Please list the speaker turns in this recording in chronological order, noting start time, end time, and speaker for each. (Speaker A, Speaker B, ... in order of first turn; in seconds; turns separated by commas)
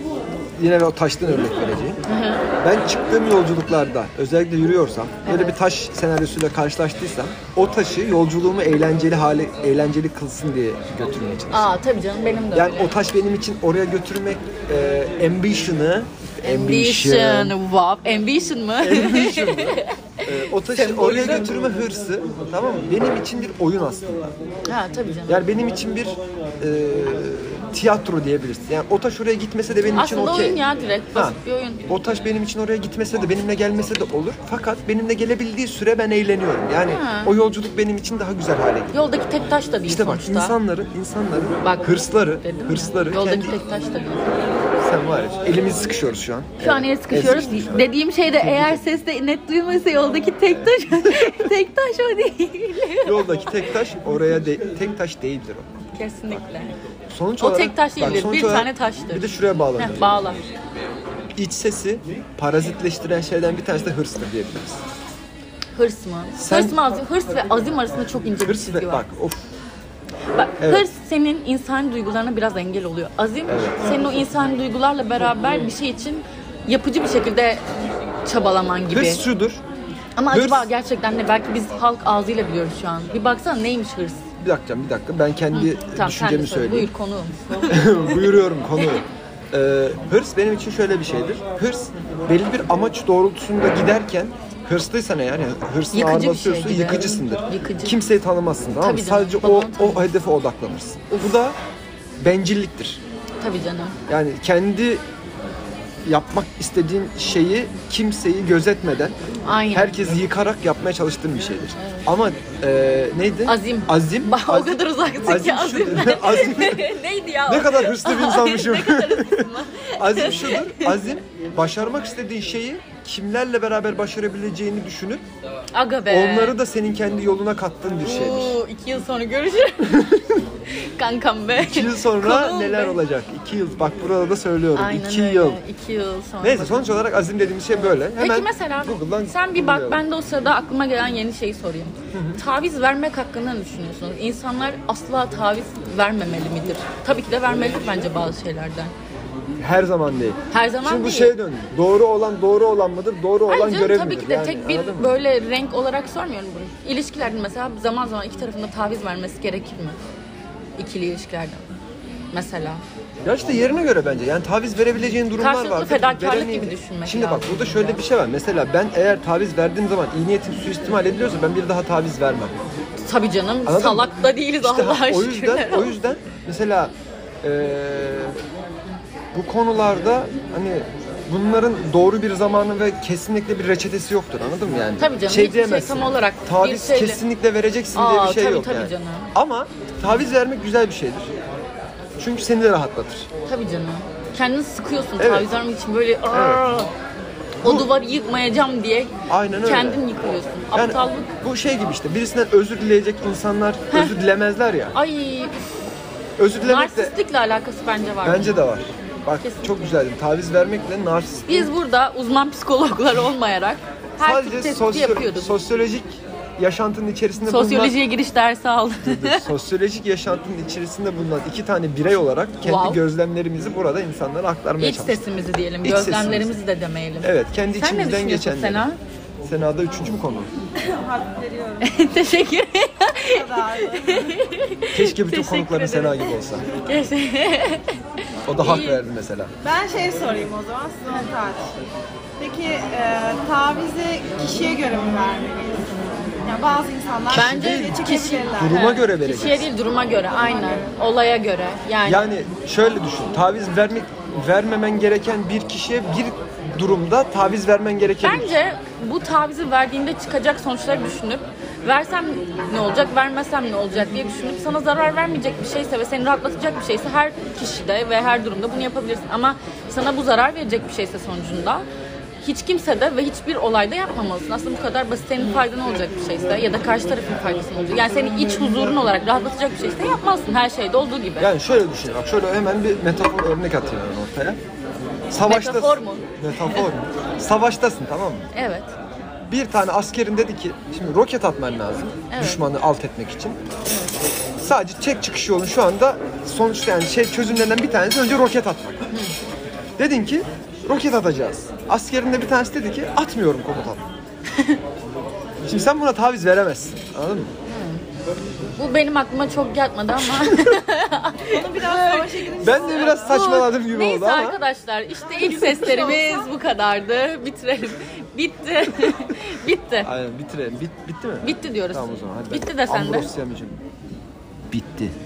Speaker A: 0.6-2.0, Speaker B: 2.1-2.5, Speaker A: 2.6-11.8, Speaker B: 5.2-5.5, Speaker B: 11.5-12.9, Speaker A: 12.5-17.6, Speaker B: 16.4-21.6, Speaker A: 18.8-24.4, Speaker B: 24.7-25.4, Speaker A: 25.3-30.6, Speaker B: 29.9-31.8, Speaker A: 31.1-39.1, Speaker B: 36.9-37.3, Speaker B: 38.9-40.5, Speaker A: 39.9-43.6, Speaker B: 41.6-44.4, Speaker A: 44.8-47.9, Speaker B: 46.6-53.3, Speaker A: 48.4-48.8, Speaker A: 50.6-51.5, Speaker A: 53.0-55.9, Speaker B: 55.9-56.8, Speaker A: 57.1-60.2, Speaker B: 57.4-60.4, Speaker A: 61.4-64.8, Speaker B: 65.8-69.0, Speaker A: 66.3-66.8, Speaker A: 68.4-69.5, Speaker B: 70.3-77.6, Speaker A: 70.6-70.9, Speaker A: 73.5-73.8, Speaker B: 78.2-79.2, Speaker A: 78.9-79.6, Speaker B: 80.2-84.2, Speaker A: 80.3-80.7, Speaker A: 84.4-86.9, Speaker B: 85.5-87.4, Speaker A: 87.7-101.6, Speaker B: 95.9-98.0, Speaker B: 98.8-100.1, Speaker A: 102.2-103.0, Speaker B: 103.4-104.0, Speaker A: 104.1-105.0, Speaker A: 106.0-109.2, Speaker B: 109.4-110.0, Speaker A: 109.7-116.9, Speaker B: 111.8-112.1, Speaker B: 113.5-120.9, Speaker A: 117.5-125.2, Speaker B: 125.7-126.5, Speaker A: 126.1-128.6, Speaker B: 128.0-133.0, Speaker A: 130.0-130.3, Speaker A: 131.6-135.6, Speaker B: 134.7-136.9, Speaker A: 136.4-140.0, Speaker B: 138.0-148.9, Speaker A: 142.1-142.4, Speaker A: 149.6-155.2, Speaker B: 150.5-151.3, Speaker B: 153.5-160.0, Speaker B: 160.8-161.7, Speaker B: 162.3-162.8, Speaker A: 163.2-172.5, Speaker B: 165.4-168.0, Speaker B: 173.0-175.9, Speaker A: 173.7-178.4, Speaker A: 179.3-191.3, Speaker B: 185.0-187.2, Speaker B: 187.9-189.3, Speaker A: 192.2-193.3, Speaker B: 193.5-196.9, Speaker A: 195.2-195.5, Speaker A: 196.3-196.6, Speaker B: 197.6-199.1, Speaker A: 197.6-197.9, Speaker A: 199.3-200.0, Speaker B: 199.6-201.4, Speaker A: 200.7-204.9, Speaker B: 204.9-205.6, Speaker A: 206.4-207.1, Speaker B: 206.6-208.6, Speaker A: 208.2-211.7, Speaker B: 209.4-209.7, Speaker B: 211.5-215.6, Speaker A: 214.2-217.9, Speaker B: 217.4-219.5, Speaker A: 219.0-225.2, Speaker B: 222.6-223.0, Speaker B: 224.8-229.0, Speaker A: 225.8-226.6, Speaker A: 227.2-228.8, Speaker A: 229.4-230.5, Speaker C: 230.8-231.9, Speaker B: 231.8-238.0, Speaker C: 233.2-234.3, Speaker A: 234.9-236.6, Speaker A: 238.4-239.5, Speaker B: 238.6-239.0, Speaker C: 239.6-241.7, Speaker C: 242.4-248.8, Speaker A: 247.3-249.7, Speaker B: 247.3-252.2, Speaker A: 252.0-258.5, Speaker B: 258.2-271.8, Speaker B: 272.4-281.5, Speaker A: 281.4-284.6, Speaker A: 285.3-288.5, Speaker B: 285.4-286.8, Speaker B: 288.5-288.9, Speaker A: 289.4-293.6, Speaker B: 292.3-292.6, Speaker A: 294.6-299.1, Speaker B: 299.1-299.4, Speaker A: 300.0-304.1, Speaker A: 305.6-307.5, Speaker B: 307.7-308.0, Speaker B: 308.8-320.1, Speaker A: 310.5-310.8, Speaker C: 311.5-313.4, Speaker A: 312.6-314.6, Speaker C: 315.3-316.3, Speaker A: 320.0-323.8, Speaker B: 321.4-323.3, Speaker A: 324.7-325.1